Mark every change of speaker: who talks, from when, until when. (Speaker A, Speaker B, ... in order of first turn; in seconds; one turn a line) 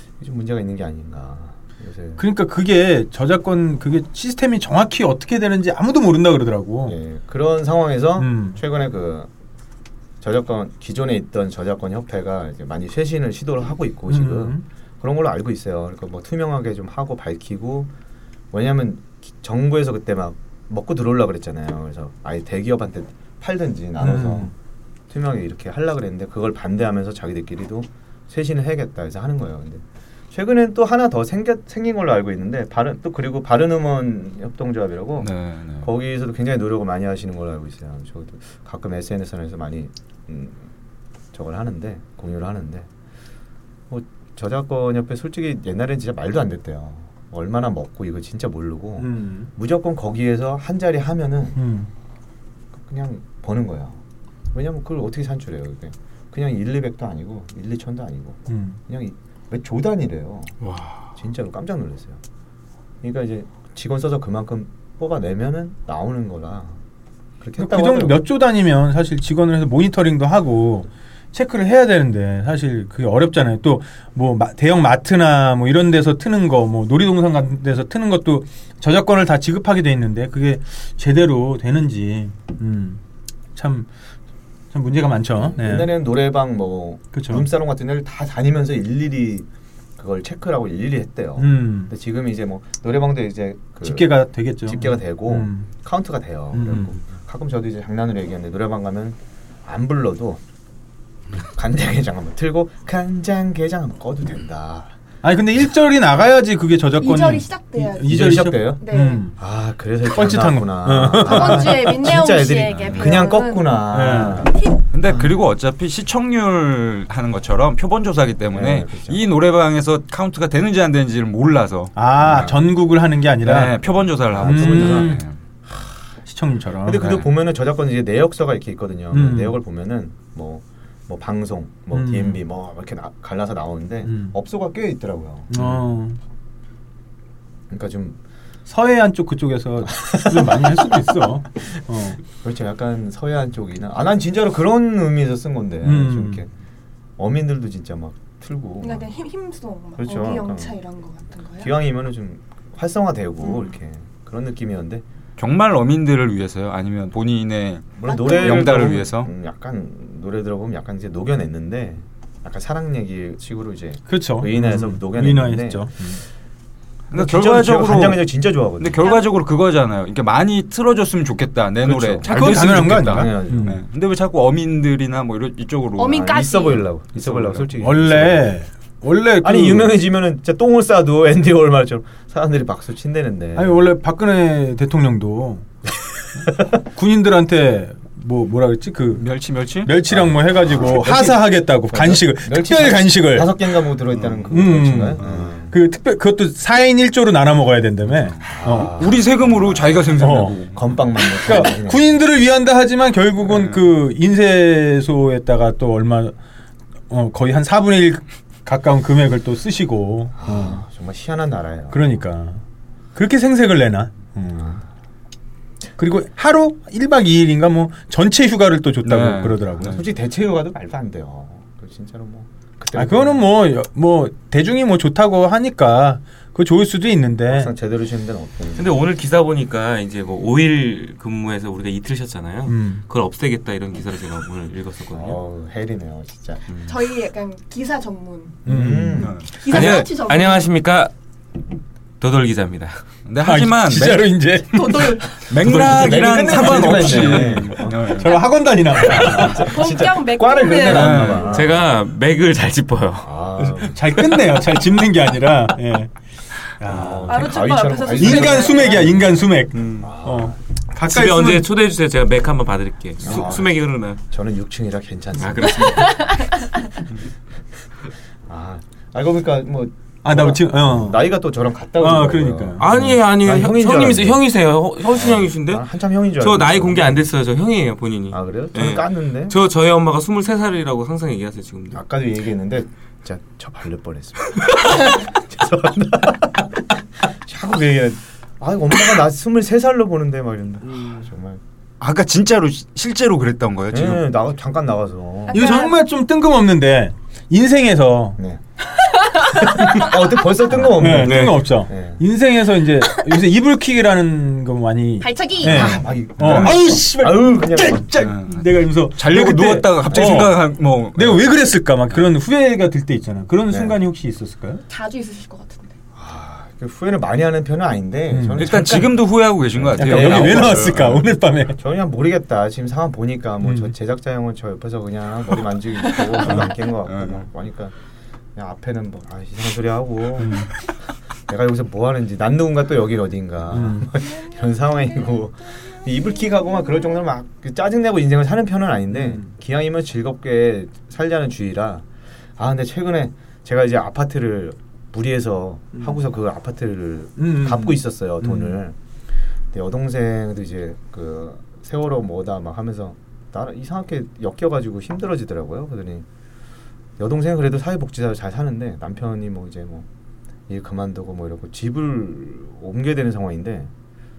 Speaker A: 0.2-2.2
Speaker B: 2.2-7.0
Speaker A: 6.8-9.3
Speaker B: 8.2-8.6
Speaker A: 10.2-17.9
Speaker B: 14.1-14.6
Speaker A: 18.5-24.5
Speaker B: 24.0-24.5
Speaker A: 25.1-40.7
Speaker C: 35.2-35.9
Speaker A: 41.3-42.9
Speaker A: 43.9-51.6
Speaker B: 49.0-49.5
Speaker B: 51.6-51.9
Speaker A: 52.8-54.0
Speaker A: 54.5-60.6
Speaker B: 58.5-58.8
Speaker A: 61.2-62.2
Speaker A: 63.0-66.8
Speaker A: 67.4-68.2
Speaker B: 67.6-83.0
Speaker B: 83.5-83.9
Speaker B: 84.7-85.9
Speaker A: 85.4-100.4
Speaker B: 87.1-87.5
Speaker B: 91.4-91.9
Speaker B: 93.8-95.7
Speaker B: 96.5-96.9
Speaker A: 101.4-104.9
Speaker B: 105.2-109.3
Speaker D: 107.0-109.3
Speaker A: 108.0-108.8
Speaker A: 109.4-115.3
Speaker B: 110.1-112.0
Speaker D: 111.2-114.8
Speaker C: 112.7-113.2
Speaker B: 113.9-114.5
Speaker C: 114.9-122.0
Speaker A: 118.5-119.2
Speaker B: 122.0-123.8
Speaker A: 122.2-122.6
Speaker C: 123.4-125.4
Speaker A: 124.3-125.9
Speaker B: 124.4-125.2
Speaker B: 126.3-127.1
Speaker A: 126.8-135.8
Speaker B: 129.1-129.6
Speaker B: 131.9-132.4
Speaker B: 134.1-134.3
Speaker B: 135.5-136.2
Speaker A: 137.7-138.2
Speaker B: 138.7-142.2
Speaker A: 139.9-141.1
Speaker A: 142.4-146.5
Speaker B: 145.8-146.4
Speaker A: 147.2-149.1
Speaker D: 148.8-151.7
Speaker A: 150.0-150.8
Speaker A: 151.6-155.0
Speaker C: 155.4-159.3
Speaker A: 158.0-165.9
Speaker D: 158.0-158.9
Speaker B: 164.1-166.2
Speaker C: 167.1-168.3
Speaker A: 167.1-169.1
Speaker C: 168.8-176.4
Speaker A: 171.8-173.8
Speaker B: 172.2-173.8
Speaker D: 176.0-176.9
Speaker A: 176.1-178.6
Speaker C: 177.2-177.7
Speaker B: 177.8-180.0
Speaker A: 179.4-183.8
Speaker B: 183.6-185.7
Speaker B: 186.8-189.2
Speaker C: 189.2-190.0
Speaker B: 189.8-193.5
Speaker A: 190.1-195.7
Speaker B: 194.5-199.0
Speaker C: 195.2-195.5
Speaker C: 198.2-200.8
Speaker A: 198.5-202.2
Speaker B: 200.2-200.6
Speaker B: 201.4-206.4
Speaker C: 203.5-203.8
Speaker B: 207.1-210.8
Speaker A: 210.4-212.1
Speaker B: 211.9-212.6
Speaker B: 213.2-214.8
Speaker A: 214.5-214.8
Speaker B: 216.0-220.0
Speaker C: 219.0-220.0
Speaker A: 219.8-223.5
Speaker B: 222.9-227.7
Speaker A: 227.5-228.9
Speaker E: 228.8-235.4
Speaker B: 232.7-233.0
Speaker A: 235.1-236.6
Speaker E: 236.7-237.0
Speaker D: 236.9-238.6
Speaker B: 238.7-239.3
Speaker A: 238.7-239.3
Speaker C: 239.2-239.5
Speaker D: 239.6-240.7
Speaker E: 239.6-241.1
Speaker E: 242.2-243.0
Speaker C: 243.3-244.4
Speaker B: 243.4-249.7
Speaker C: 245.5-248.5
Speaker A: 245.7-248.1
Speaker A: 248.9-251.9
Speaker D: 249.5-251.5
Speaker C: 250.9-251.5
Speaker E: 251.4-253.4
Speaker A: 253.2-254.4
Speaker B: 253.6-256.1
Speaker B: 256.8-257.5
Speaker A: 256.9-259.4
Speaker D: 257.3-259.3
Speaker B: 258.1-261.7
Speaker E: 259.7-260.1
Speaker A: 260.0-260.6
Speaker E: 261.0-264.2
Speaker A: 263.2-266.3
Speaker E: 265.4-266.4
Speaker D: 266.1-266.8
Speaker A: 268.5-274.4
Speaker B: 270.2-271.3
Speaker B: 272.0-273.1
Speaker E: 272.8-275.9
Speaker A: 275.1-277.2
Speaker E: 276.4-282.0
Speaker A: 278.3-279.6
Speaker A: 281.9-291.6
Speaker C: 292.0-294.3
Speaker A: 293.9-295.6
Speaker D: 295.5-296.0
Speaker B: 295.5-298.4
Speaker A: 299.8-302.2
Speaker B: 300.8-314.8
Speaker E: 301.2-301.6
Speaker D: 305.2-306.1
Speaker A: 305.6-308.3
Speaker C: 306.4-306.8
Speaker C: 308.2-311.5
Speaker A: 313.7-314.0
Speaker D: 314.9-315.9
Speaker A: 316.1-321.1
Speaker B: 318.3-318.7
Speaker C: 318.6-321.3
Speaker B: 320.0-321.8
Speaker A: 321.7-327.9
Speaker B: 323.6-323.9
Speaker C: 327.1-327.4
Speaker A: 328.6-330.7
Speaker B: 330.4-330.7
Speaker A: 331.5-342.1
Speaker B: 333.7-334.1
Speaker D: 334.2-335.4
Speaker D: 336.6-337.0
Speaker B: 339.1-339.5
Speaker A: 342.6-349.0
Speaker B: 347.4-348.8
Speaker A: 349.7-356.3
Speaker A: 357.2-360.1
Speaker A: 360.7-363.9